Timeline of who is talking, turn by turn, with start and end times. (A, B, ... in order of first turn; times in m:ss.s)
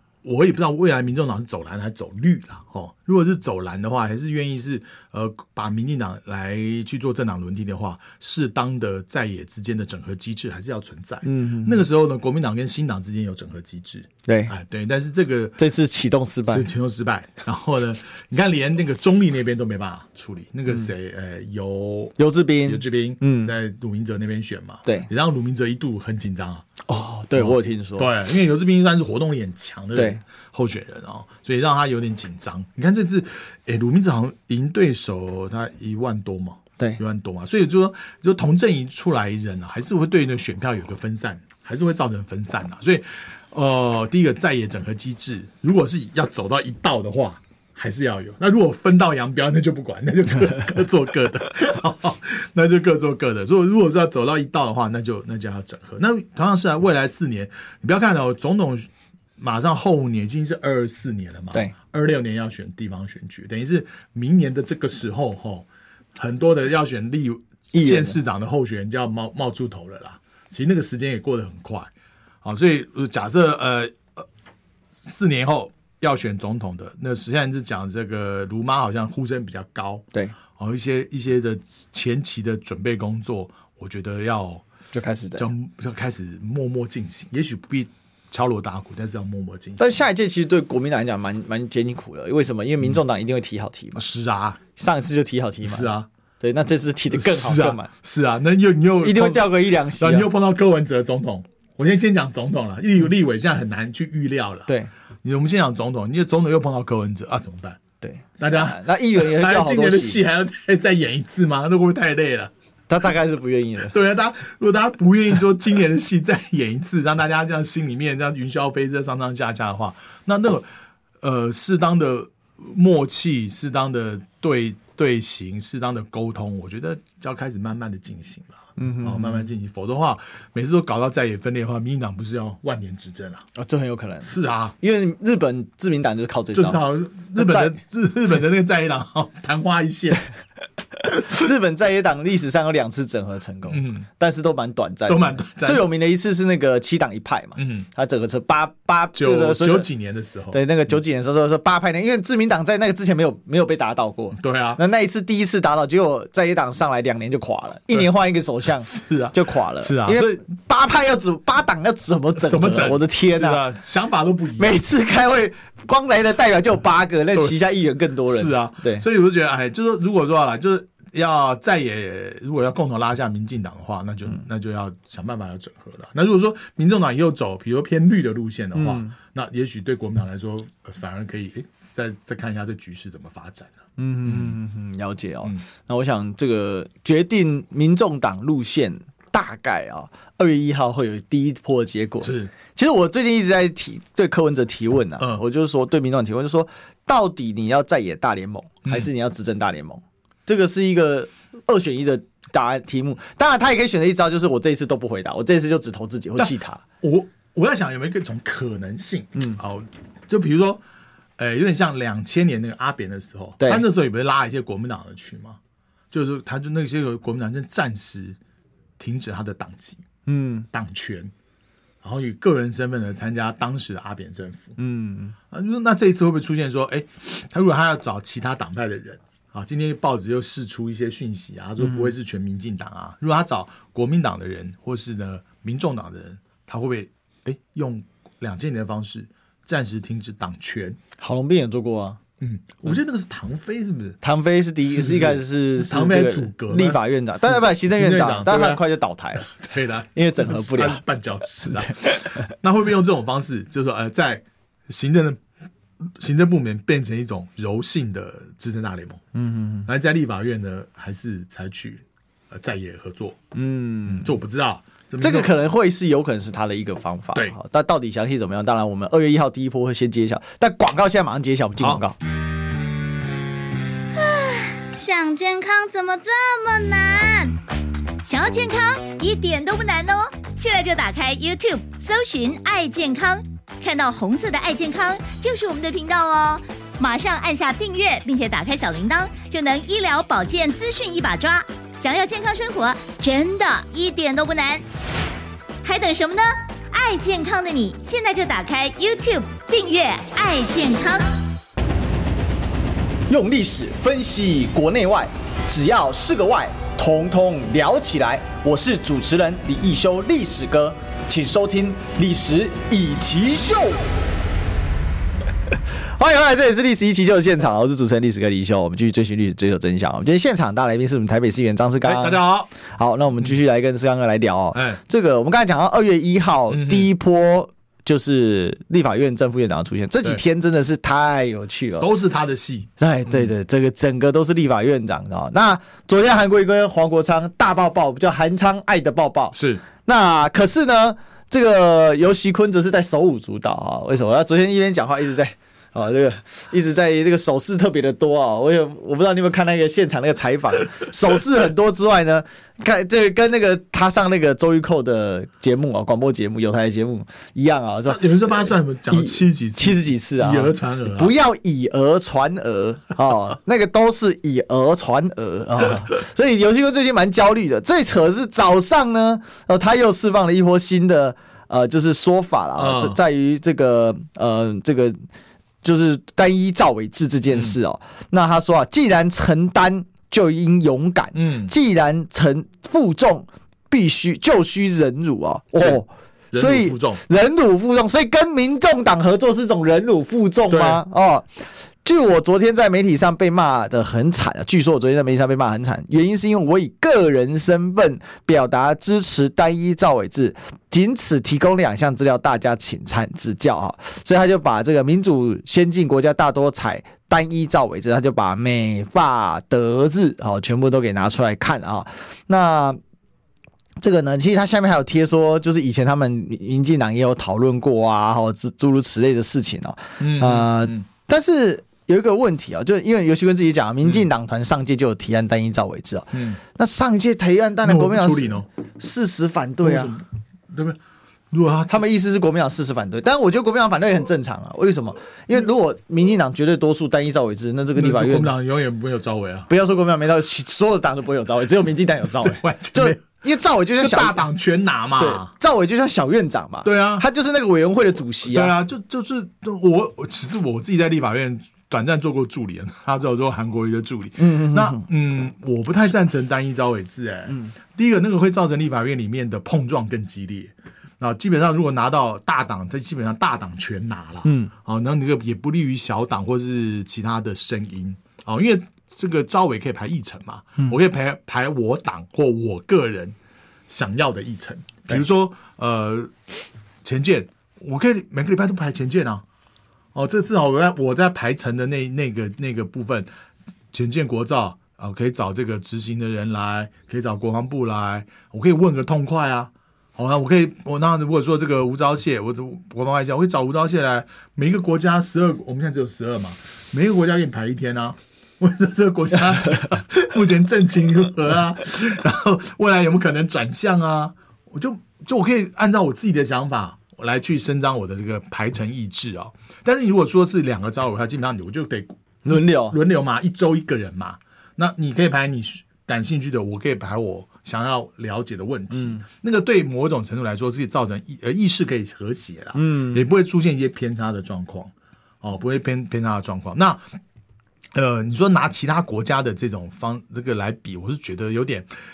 0:00.2-0:15.6 A
0:11.2-0:11.8 B
0:14.2-0:14.5 B
0:15.6-0:16.7 B
0:16.5-0:26.7 A
0:22.2-0:23.5 B
0:26.9-0:28.1 B
0:27.3-1:11.9 A
0:29.9-0:30.2 B
1:07.7-1:08.2 B
1:12.4-1:14.3 A
1:15.0-1:24.6 A
1:24.9-1:25.5 B
1:25.4-1:29.9 A
1:29.8-1:34.0 B
1:34.0-1:34.6 A
1:34.8-1:37.9 B
1:35.6-1:36.1 A
1:37.1-1:44.7 A
1:39.0-1:40.3 B
1:45.2-1:47.8 A
1:48.0-1:50.2 B
1:48.4-1:52.5 A
1:52.9-1:53.9 B
1:53.9-2:00.7 A
2:01.2-2:13.4 A
2:08.8-2:09.5 B
2:13.6-2:16.8 B
2:14.2-2:14.8 A
2:16.5-2:20.2 A
2:17.3-2:17.7 B
2:21.1-2:29.9 B
2:23.7-2:24.1 A
2:25.1-2:25.8 A
2:27.6-2:27.9 A
2:29.1-2:30.6 A
2:30.5-2:43.6 B
2:34.4-2:34.8 A
2:38.8-2:40.4 A
2:42.4-2:44.8 A
2:44.6-2:49.0 B
2:48.2-3:04.6 A
2:58.7-2:59.1 B
3:04.0-3:26.8 B
3:12.2-3:12.5 A
3:18.8-3:19.1 A
3:27.0-3:30.8 A
3:31.4-3:35.6 A
3:33.6-3:33.8 B
3:36.1-3:38.4 A
3:39.0-3:40.0 A
3:40.2-3:40.7 B
3:40.7-3:41.3 A
3:42.0-3:44.7 A
3:44.8-3:45.4 B
3:45.5-4:01.0 A
3:51.8-3:52.1 B
4:01.2-4:02.2 B
4:02.4-4:04.2 A
4:04.2-4:09.5 B
4:04.8-4:15.4 A
4:10.1-4:11.0 B
4:11.6-4:12.5 B
4:16.0-4:19.2 A
4:19.3-4:19.9 B
4:19.8-4:23.4 A
4:23.5-4:24.3 B
4:24.1-4:25.5 A
4:25.2-4:32.2 B
4:34.1-4:37.6 C
4:38.2-4:54.8 C
4:55.8-5:01.3 C
5:03.3-5:14.0 B
5:16.0-5:32.1 B
5:22.0-5:22.7 A
5:24.7-5:25.0 A
5:26.7-5:27.1 A
5:32.0-5:33.5 A
5:33.0-6:15.2 B
5:39.5-5:39.8 A
5:58.1-6:01.3 A
6:12.8-6:13.2 A
6:15.8-6:31.5 B
6:21.3-6:21.7 A
6:26.5-6:27.2 A
6:30.7-6:31.0 A
6:32.0-6:53.0 B
6:54.0-7:10.1 B
7:00.2-7:01.0 A
7:06.3-7:06.6 A
7:07.8-7:08.7 A
7:09.8-7:11.0 A
7:11.5-7:12.0 A
7:11.9-7:18.5 B
7:18.0-7:19.7 A
7:19.7-7:24.4 B
7:22.4-7:23.2 A
7:24.0-7:25.5 A
7:25.2-7:28.7 B
7:26.8-7:27.2 A
7:28.5-7:53.3 A
7:34.4-7:35.0 B
7:44.4-7:44.7 B
7:53.9-7:56.3 A
7:57.0-7:59.4 A
8:00.1-8:03.3 A
8:03.9-8:47.1 A
8:32.4-8:33.0 B
8:38.9-8:39.2 B
8:42.7-8:43.3 B
8:47.9-8:51.9 A